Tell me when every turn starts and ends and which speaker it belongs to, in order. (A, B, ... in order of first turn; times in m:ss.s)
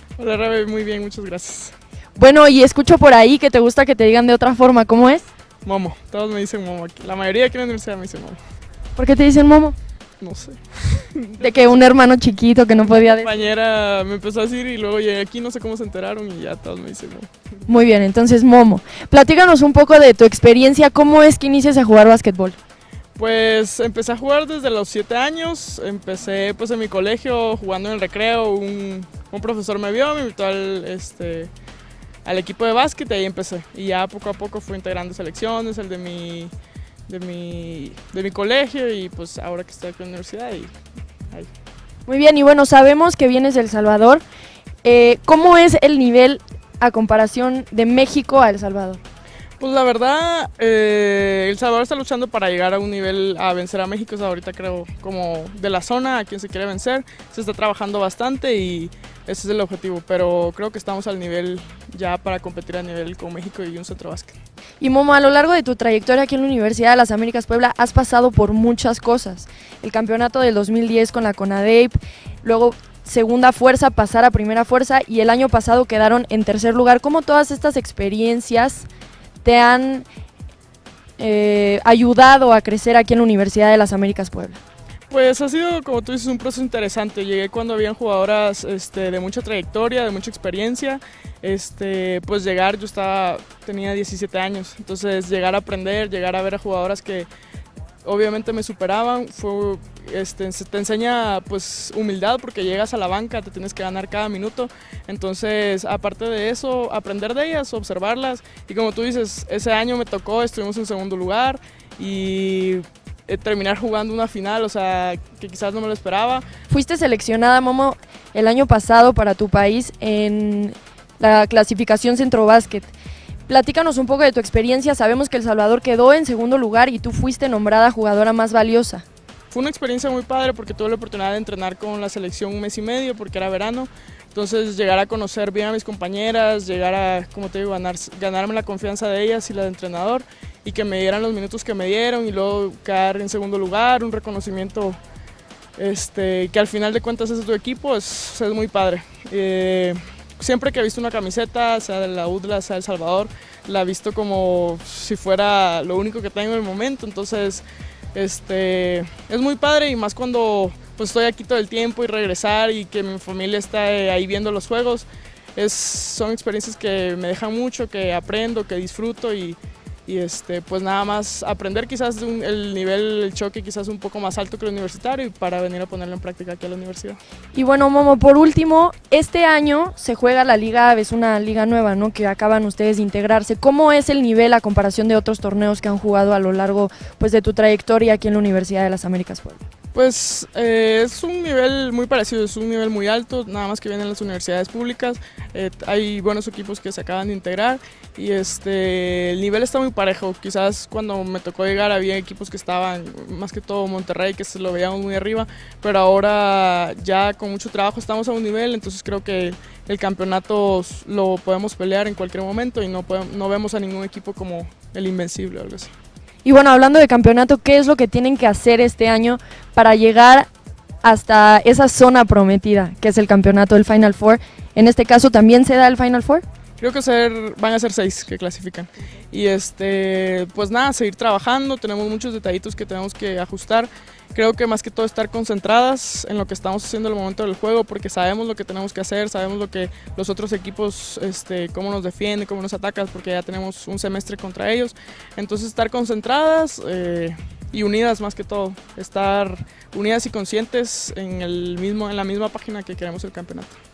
0:00.2-0:01.7 A
0:02.2-0:05.3 B
0:05.6-0:08.4 A
0:09.0-0:09.8 B
0:10.2-0:11.7 A
0:11.4-0:13.3 B
0:12.8-0:17.3 A
0:17.7-0:22.6 B
0:23.2-0:31.5 A
0:32.2-0:36.5 A
0:37.1-0:40.7 A
0:42.1-0:44.2 B
0:44.8-0:49.0 B
0:49.6-1:04.4 A
1:04.8-1:18.9 B
1:19.4-1:20.1 B
1:21.2-1:24.6 B
1:25.1-1:37.3 A
1:38.0-1:56.5 A
1:56.7-2:02.9 B
2:03.5-2:09.0 B
2:09.5-2:25.0 A
2:25.8-2:57.2 A
2:57.5-3:09.6 B
3:09.9-3:35.9 A
3:36.4-3:40.5 B
3:41.0-3:46.4 B
3:46.8-4:13.8 A